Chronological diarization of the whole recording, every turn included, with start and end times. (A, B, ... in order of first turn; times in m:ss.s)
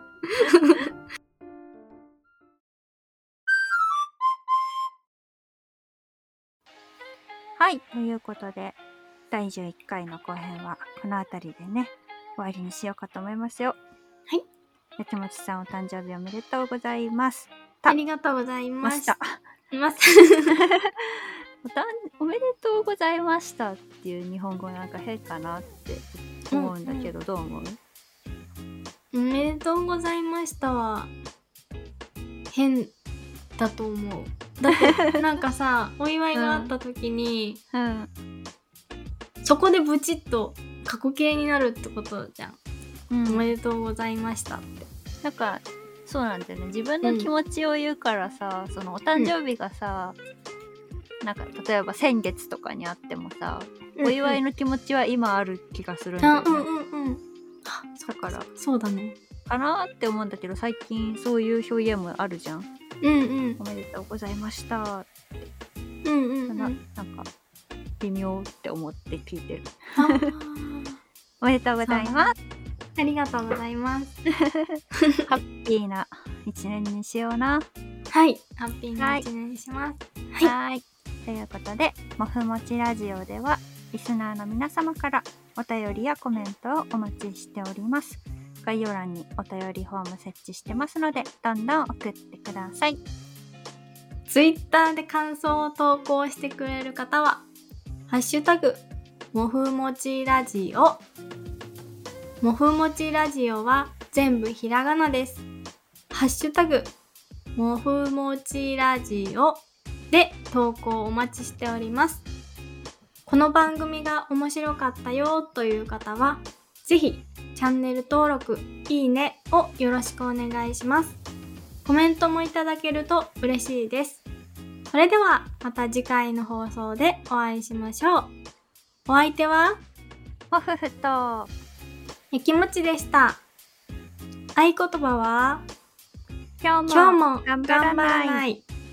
0:00.3-0:00.8 A
0:07.6-0:08.8 B
0:09.3-0:13.8 B
0:15.0-0:18.0 B
0:17.9-0:19.1 A
0:18.8-0:19.4 B
0:19.7-0:20.6 A
0:20.6-0:27.8 B
0:26.5-0:27.1 A
0:29.1-0:31.1 A
0:32.5-0:32.9 A
0:33.6-0:37.6 A
0:34.7-0:35.2 B
0:36.3-0:36.7 B
0:37.7-0:38.1 B
0:39.4-0:42.6 A
0:43.1-0:43.5 B
0:43.3-0:44.9 A
0:45.2-0:50.2 B
0:47.0-0:47.3 A
0:51.2-0:56.7 B
0:54.0-0:54.4 A
0:56.2-0:59.2 A
0:58.1-0:58.5 B
0:59.4-1:02.7 B
1:03.0-1:03.6 A
1:03.6-1:05.1 B
1:06.0-1:06.8 A
1:06.5-1:07.3 B
1:08.0-1:10.3 B
1:10.0-1:11.0 A
1:11.4-1:12.4 B
1:11.9-1:12.3 A
1:13.0-1:14.2 A
1:14.3-1:17.7 B
1:14.9-1:15.3 A
1:18.1-1:20.5 A
1:19.0-1:19.3 B
1:20.4-1:33.0 B
1:34.3-1:37.4 A
1:38.1-1:41.0 A
1:42.4-1:45.4 A
1:46.1-1:46.9 A
1:47.6-1:52.2 A
1:53.3-2:01.2 A
2:01.8-2:04.2 A
2:04.9-2:08.3 A
2:09.1-2:09.8 A
2:10.5-2:11.5 B
2:12.3-2:13.4 A
2:14.6-2:15.7 A
2:16.6-2:18.4 B
2:16.9-2:18.6 A